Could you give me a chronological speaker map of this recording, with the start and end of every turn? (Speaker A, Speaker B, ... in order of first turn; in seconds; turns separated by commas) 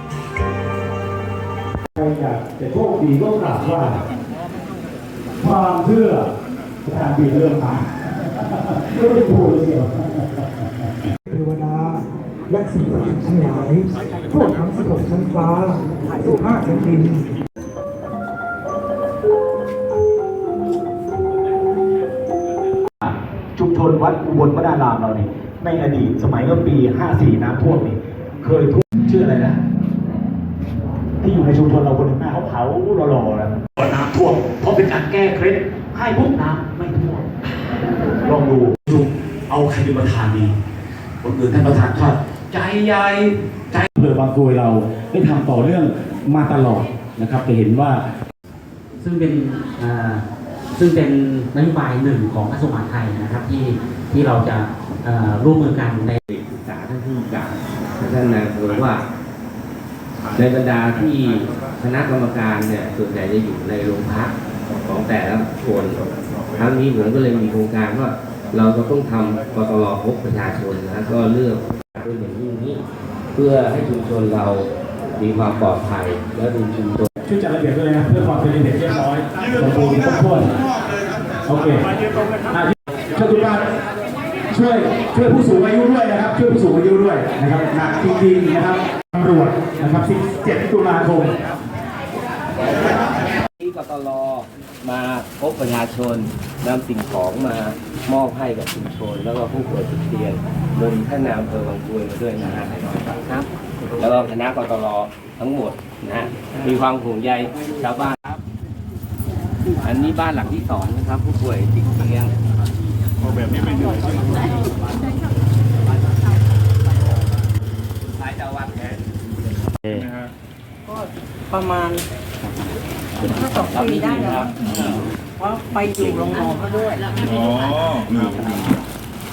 Speaker A: 2.0-4.0, Speaker A: 5.4-6.3, Speaker A: 6.8-10.9, Speaker B: 11.3-17.4, Speaker A: 23.0-29.6, Speaker A: 31.2-37.3, Speaker A: 38.2-40.5, Speaker A: 41.2-48.0, Speaker C: 49.0-56.2, Speaker D: 56.3-59.1, Speaker D: 60.3-66.0, Speaker D: 66.6-72.8, Speaker D: 73.3-77.1, Speaker A: 77.2-80.7, Speaker A: 81.5-82.0, Speaker A: 82.5-83.7, Speaker A: 84.5-91.4, Speaker D: 92.6-108.4, Speaker D: 109.8-112.3, Speaker E: 113.2-114.4, Speaker D: 118.3-118.6, Speaker E: 119.9-120.3, Speaker F: 120.9-122.0, Speaker F: 123.2-127.3, Speaker D: 123.7-125.0, Speaker E: 127.2-128.7